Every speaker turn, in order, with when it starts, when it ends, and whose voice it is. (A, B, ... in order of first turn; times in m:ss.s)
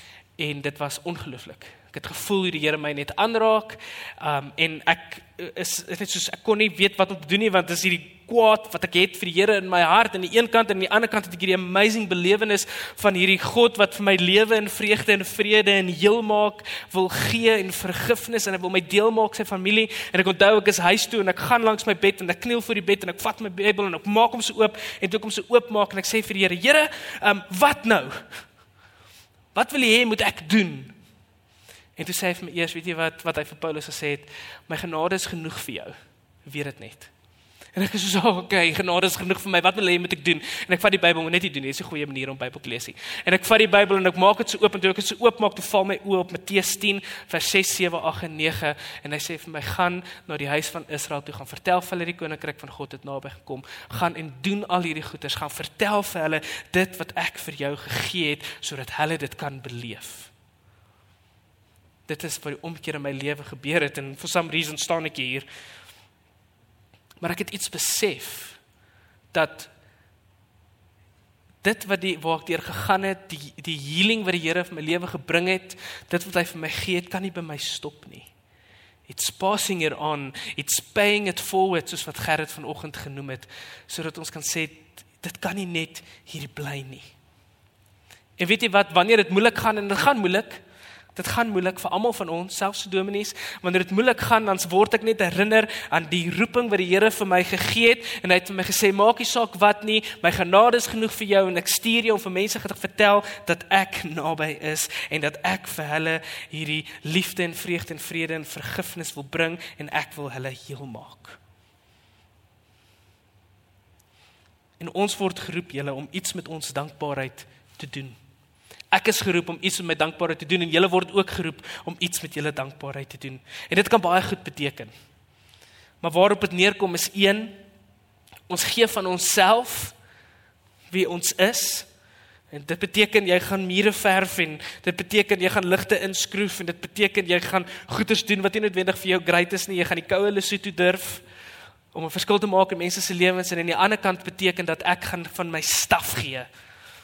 0:00.4-0:28.2 A
0:29.5-0:30.9 A
0:32.0-0:35.9 A
0:36.4-0:37.1 A
0:37.8-1:00.3 A
1:02.1-1:05.5 A
1:07.2-1:08.6 A
1:09.3-1:09.7 A
1:11.6-1:18.3 A
1:19.1-1:27.1 A
1:28.4-1:30.6 A
1:31.1-1:51.4 A
1:54.8-1:58.2 A
1:58.9-2:04.9 A
2:06.0-2:07.6 A
2:08.5-2:09.9 A
2:10.9-2:11.9 A
2:12.5-2:21.2 A
2:21.9-2:26.5 A